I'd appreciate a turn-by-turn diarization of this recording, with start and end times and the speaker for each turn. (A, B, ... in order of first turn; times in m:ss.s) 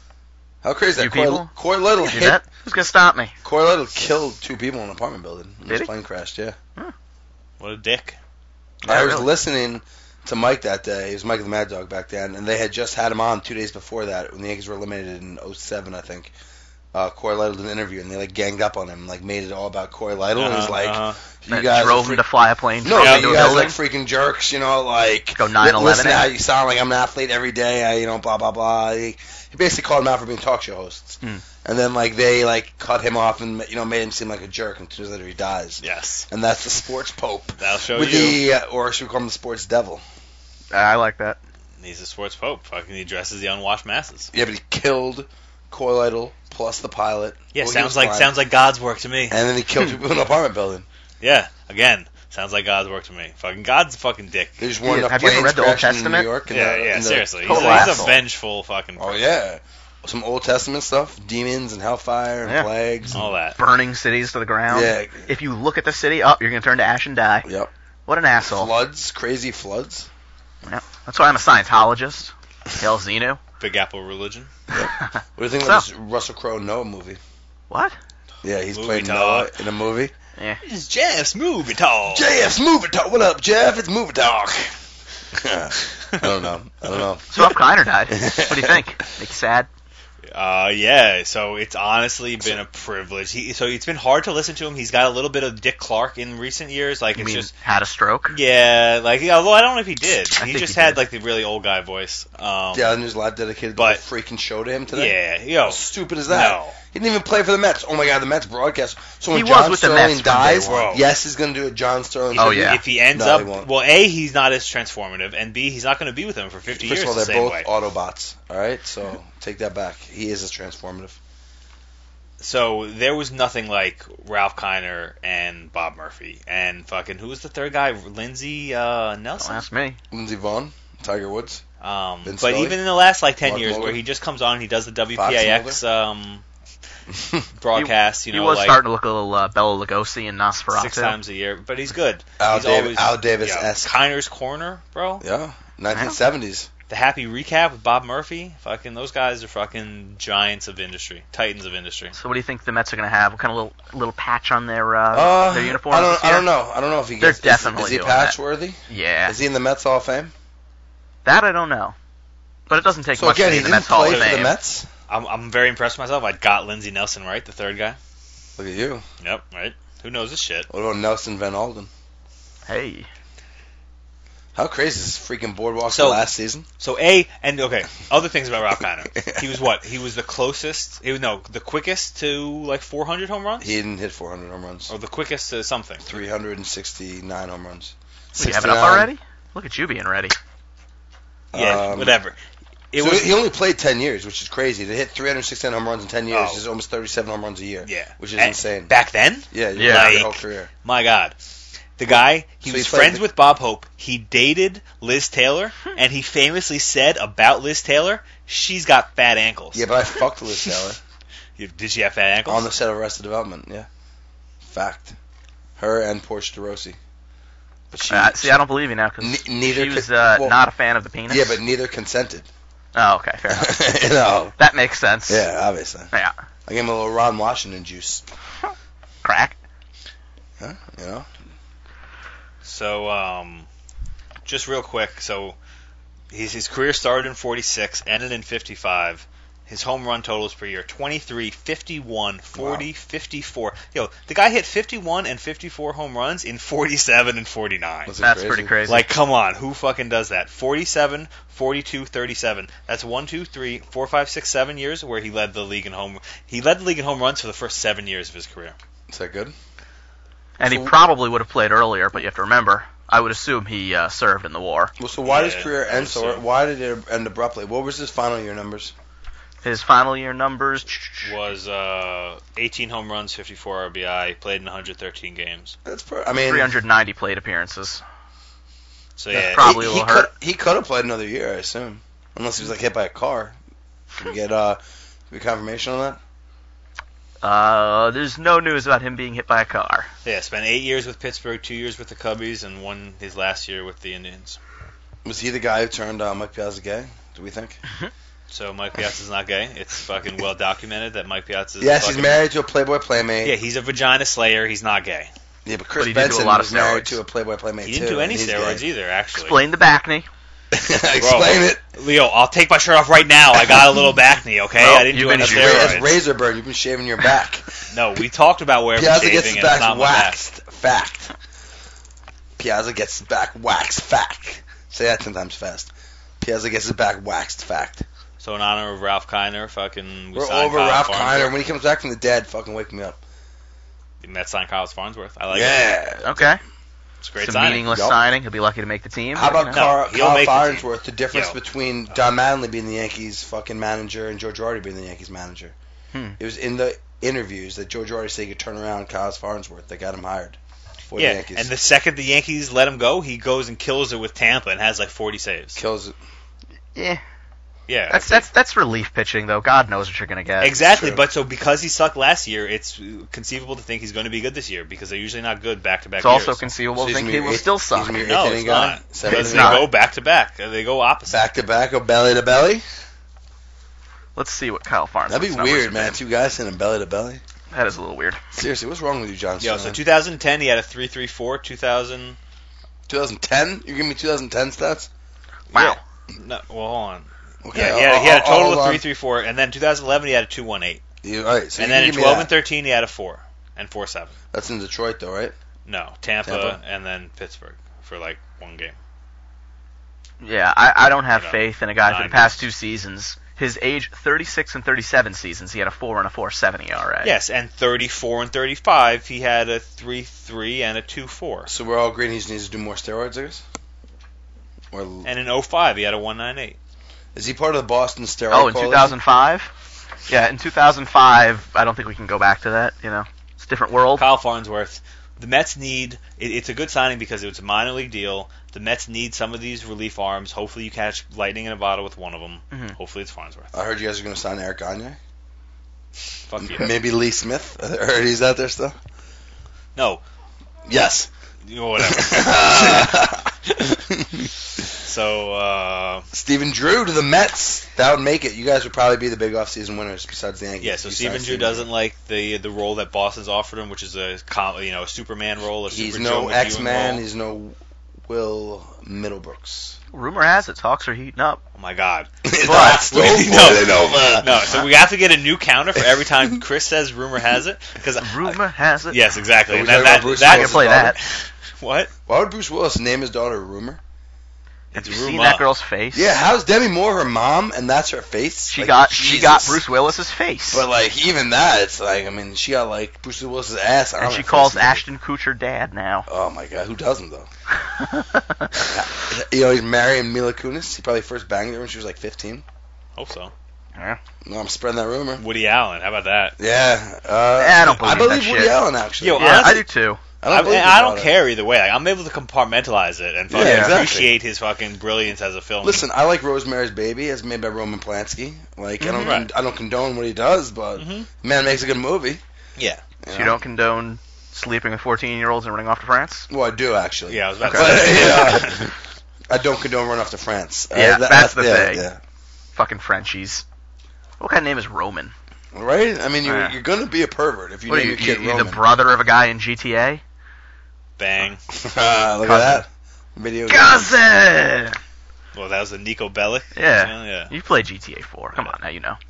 0:00.6-0:02.4 A
0:01.0-0:01.5 B
0:02.0-0:03.3 B
0:03.4-0:06.6 A
0:07.6-0:08.2 C
0:08.8-0:16.3 A
0:08.8-0:09.3 B
0:16.9-0:22.3 A
0:20.4-0:21.2 C
0:21.5-0:23.8 B
0:22.8-0:40.0 A
0:22.9-0:23.7 C
0:25.4-0:26.3 B
0:35.8-0:36.3 C
0:37.6-0:38.4 C
0:40.7-0:41.4 B
0:41.8-0:44.3 C
0:44.3-0:48.3 A
0:47.5-0:49.4 C
0:49.3-0:50.9 A
0:51.2-0:54.6 C
0:54.6-0:58.2 A
0:54.8-0:56.3 B
0:56.5-0:59.2 C
0:57.4-0:58.2 B
0:59.0-1:03.3 A
1:03.1-1:03.6 C
1:03.6-1:07.5 B
1:04.7-1:05.3 A
1:07.4-1:07.7 A
1:08.1-1:08.7 B
1:08.5-1:10.1 A
1:10.6-1:13.4 B
1:13.6-1:14.5 C
1:14.7-1:15.8 B
1:14.7-1:17.2 A
1:17.7-1:18.0 B
1:18.4-1:20.1 A
1:18.7-1:19.5 C
1:20.6-1:22.3 C
1:22.1-1:24.8 A
1:25.3-1:27.6 A
1:27.3-1:29.7 B
1:28.1-1:28.8 A
1:30.3-1:37.5 C
1:37.2-1:38.4 B
1:38.3-1:43.0 C
1:40.4-1:41.0 B
1:42.7-1:53.7 A
1:43.8-1:44.0 C
1:44.9-1:46.8 C
1:49.3-1:50.8 B
1:50.6-1:51.1 C
1:52.3-1:57.7 C
1:52.4-1:52.8 B
1:56.7-2:01.2 A
2:02.4-2:09.6 C
2:09.4-2:10.0 B
2:10.1-2:11.6 A
2:11.8-2:16.4 C
2:12.2-2:12.8 A
2:13.4-2:14.0 A
2:15.1-2:15.8 A
2:17.1-2:17.4 A
2:17.6-2:18.8 C
2:17.7-2:21.2 B
2:20.7-2:25.2 C
2:22.4-2:23.9 A
2:25.2-2:26.7 A
2:26.9-2:32.2 C
2:32.2-2:36.5 B
2:35.1-2:40.3 A
2:37.2-2:38.4 B
2:38.9-2:39.4 B
2:41.2-2:42.0 B
2:42.7-2:44.5 B
2:43.2-2:44.9 A
2:43.9-2:44.5 C
2:45.1-2:48.0 C
2:48.6-2:49.0 A
2:49.2-2:50.7 C
2:50.7-2:51.9 A
2:52.7-2:53.1 B
2:54.6-2:56.7 A
2:55.9-2:56.2 C
2:56.8-3:03.7 C
3:03.6-3:04.9 A
3:04.9-3:06.2 C
3:06.0-3:09.1 A
3:08.4-3:10.4 B
3:11.5-3:12.2 A
3:11.5-3:12.4 C
3:12.9-3:13.4 C
3:13.0-3:18.9 A
3:16.3-3:16.6 C
3:17.8-3:21.4 C
3:19.5-3:20.7 A
3:19.8-3:20.2 B
3:22.0-3:29.9 C
3:22.1-3:23.2 A
3:29.7-3:31.0 A
3:31.6-3:32.7 C
3:32.5-3:33.9 A
3:34.6-3:35.2 A
3:35.8-3:37.0 A
3:37.9-3:38.6 A
3:38.1-3:41.6 B
3:39.2-3:40.6 A
3:41.3-3:42.5 A
3:42.9-3:43.8 B
3:43.5-3:44.6 A
3:44.6-3:45.5 B
3:45.3-3:46.1 A
3:46.7-3:48.3 A
3:49.2-3:49.6 B
3:50.6-3:51.3 A
3:52.6-3:53.7 C
3:54.4-3:55.6 C
3:56.3-4:08.1 C
4:02.6-4:02.9 A
4:08.1-4:08.8 A
4:08.2-4:09.0 B
4:08.9-4:18.8 C
4:19.1-4:19.5 A
4:20.6-4:24.9 B
4:20.6-4:21.0 A
4:25.0-4:28.9 A
4:25.3-4:26.4 C
4:29.6-4:31.3 B
4:31.2-4:35.8 C
4:35.8-4:36.7 A
4:36.4-4:38.0 B
4:39.2-4:39.7 C
4:39.3-4:43.6 A
4:39.4-4:40.3 B
4:44.2-4:46.2 A
4:47.4-4:50.1 B
4:50.2-4:54.6 C
4:55.2-4:57.8 A
4:58.5-5:02.4 C
5:01.8-5:03.6 A
5:03.4-5:05.3 C
5:05.6-5:08.8 A
5:06.0-5:07.2 B
5:07.8-5:09.6 C
5:09.3-5:10.3 B
5:10.7-5:11.8 A
5:11.2-5:16.2 C
5:14.8-5:15.9 B
5:15.4-5:17.8 A
5:17.9-5:20.4 C
5:19.0-5:21.3 A
5:22.6-5:28.0 A
5:28.4-5:31.5 C
5:30.4-5:33.2 A
5:34.2-5:35.9 C
5:35.5-5:36.5 A
5:36.2-5:36.6 B
5:37.2-5:37.9 C
5:37.4-5:39.8 B
5:37.8-5:38.2 A
5:39.3-5:45.8 A
5:39.7-5:41.6 C
5:46.1-5:46.4 B
5:46.4-5:50.6 A
5:51.1-5:51.7 A
5:51.2-5:55.8 C
5:55.8-5:56.2 A
5:57.0-5:57.2 B
5:57.9-5:58.5 C
5:58.1-6:00.8 B
6:00.6-6:06.7 C
6:00.8-6:01.2 A
6:06.2-6:08.3 B
6:07.0-6:09.9 A
6:08.2-6:11.5 C
6:09.2-6:09.9 B
6:11.3-6:12.8 A
6:14.4-6:16.2 B
6:15.3-6:17.4 A
6:17.7-6:18.4 B
6:18.5-6:20.0 A
6:19.6-6:22.4 C
6:23.1-6:25.1 A
6:25.7-6:31.0 C
6:25.7-6:26.0 B
6:27.6-6:29.0 A
6:31.2-6:32.5 A
6:31.8-6:34.3 C
6:34.5-6:35.6 A
6:35.9-6:39.0 C
6:36.5-6:36.8 A
6:40.4-6:47.4 B
6:41.3-6:42.6 C
6:47.2-6:51.7 C
6:51.7-6:53.6 A
6:54.9-6:55.3 A
6:55.2-6:56.8 C
6:57.4-6:59.2 A
6:58.5-6:59.7 B
7:00.3-7:04.2 B
7:04.2-7:13.7 C
7:13.7-7:15.2 A
7:16.5-7:16.9 C
7:16.6-7:19.0 A
7:20.0-7:20.2 C
7:20.9-7:21.3 A
7:21.7-7:23.2 C
7:22.0-7:24.5 A
7:24.9-7:26.3 C
7:26.3-7:31.9 A
7:30.8-7:37.2 C
7:35.9-7:40.0 A
7:40.1-7:41.6 B
7:41.8-7:52.1 C
7:42.4-7:44.7 A
7:42.6-7:43.1 B
7:48.2-7:49.2 B
7:49.7-7:51.2 A
7:50.4-7:51.2 B
7:52.3-7:54.0 A
7:54.9-7:55.7 C
7:55.0-7:56.3 B
7:56.1-7:59.8 A
7:58.7-8:00.9 B
8:00.7-8:05.0 A
8:04.2-8:06.3 B
8:06.3-8:07.5 A
8:07.8-8:08.9 B
8:08.8-8:12.6 A
8:13.2-8:13.5 C
8:14.4-8:15.4 A
8:15.4-8:16.6 C
8:16.6-8:19.8 A
8:17.6-8:18.8 B
8:19.2-8:19.8 C
8:19.4-8:20.2 B
8:20.4-8:21.4 A
8:20.5-8:26.0 C
8:23.5-8:24.3 A
8:23.6-8:24.0 B
8:25.8-8:32.4 A
8:29.0-8:29.4 B
8:29.2-8:29.5 C
8:31.0-8:31.3 C
8:32.8-8:33.0 C
8:33.2-8:33.6 A
8:33.3-8:36.5 B
8:36.5-8:38.9 A
8:37.3-8:38.9 C
8:37.6-8:38.6 B
8:39.5-8:42.2 A
8:40.9-8:42.1 B
8:42.7-8:43.6 B
8:44.4-8:45.3 B
8:45.7-8:48.8 A
8:46.4-8:46.8 B
8:47.9-8:50.2 B
8:51.2-8:51.6 C
8:51.7-8:54.1 A
8:52.4-8:52.8 B
8:53.7-8:55.0 B
8:55.5-8:57.5 C
8:56.8-8:59.2 B